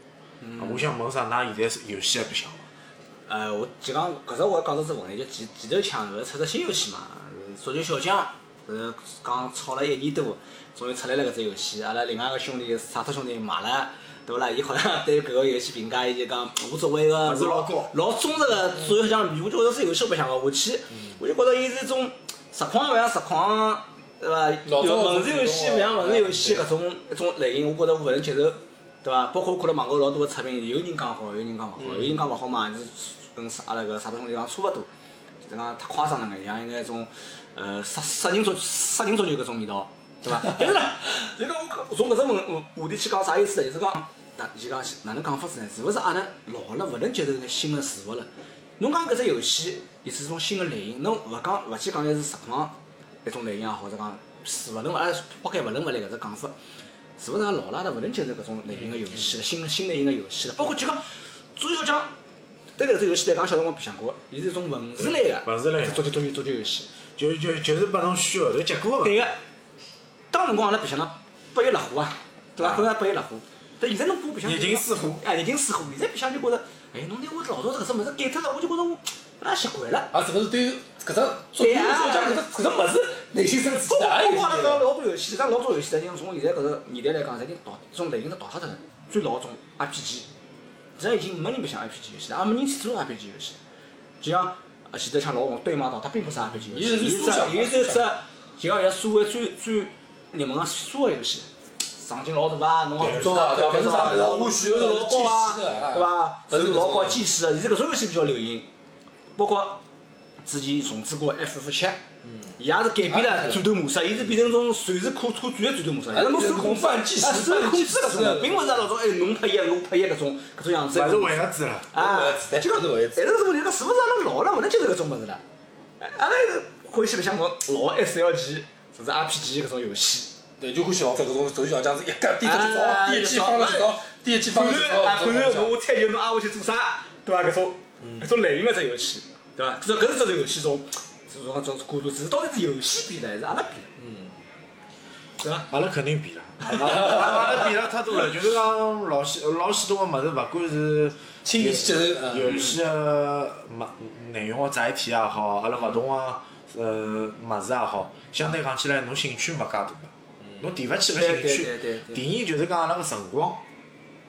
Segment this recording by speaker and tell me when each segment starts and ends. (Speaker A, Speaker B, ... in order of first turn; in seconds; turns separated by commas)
Speaker A: 0.4-0.9, Speaker B: 0.6-2.7, Speaker A: 3.3-34.9, Speaker B: 17.2-17.9, Speaker C: 24.6-26.6, Speaker C: 31.8-32.3, Speaker A: 35.4-56.5, Speaker A: 57.2-61.0, Speaker A: 61.5-62.1, Speaker A: 62.8-66.9, Speaker B: 65.0-66.0, Speaker B: 67.2-69.3, Speaker A: 69.0-69.4, Speaker A: 70.3-80.1, Speaker B: 72.6-72.9, Speaker B: 74.4-75.2, Speaker C: 80.1-84.8, Speaker A: 81.6-82.4, Speaker A: 83.6-90.3, Speaker A: 91.0-93.6, Speaker A: 94.2-108.7, Speaker C: 96.6-98.1, Speaker C: 103.0-107.2, Speaker B: 103.0-103.5, Speaker A: 109.4-109.8, Speaker A: 110.4-112.0, Speaker A: 112.6-125.4, Speaker C: 113.1-113.7, Speaker C: 116.1-118.8, Speaker B: 120.9-121.9, Speaker C: 122.0-123.3, Speaker A: 126.0-130.3, Speaker C: 130.6-135.8, Speaker A: 132.4-133.9, Speaker A: 134.5-143.9, Speaker A: 145.4-145.7, Speaker B: 145.7-163.6, Speaker A: 146.7-147.5, Speaker C: 147.1-147.4, Speaker C: 151.4-152.5, Speaker A: 152.3-152.8, Speaker A: 161.1-162.2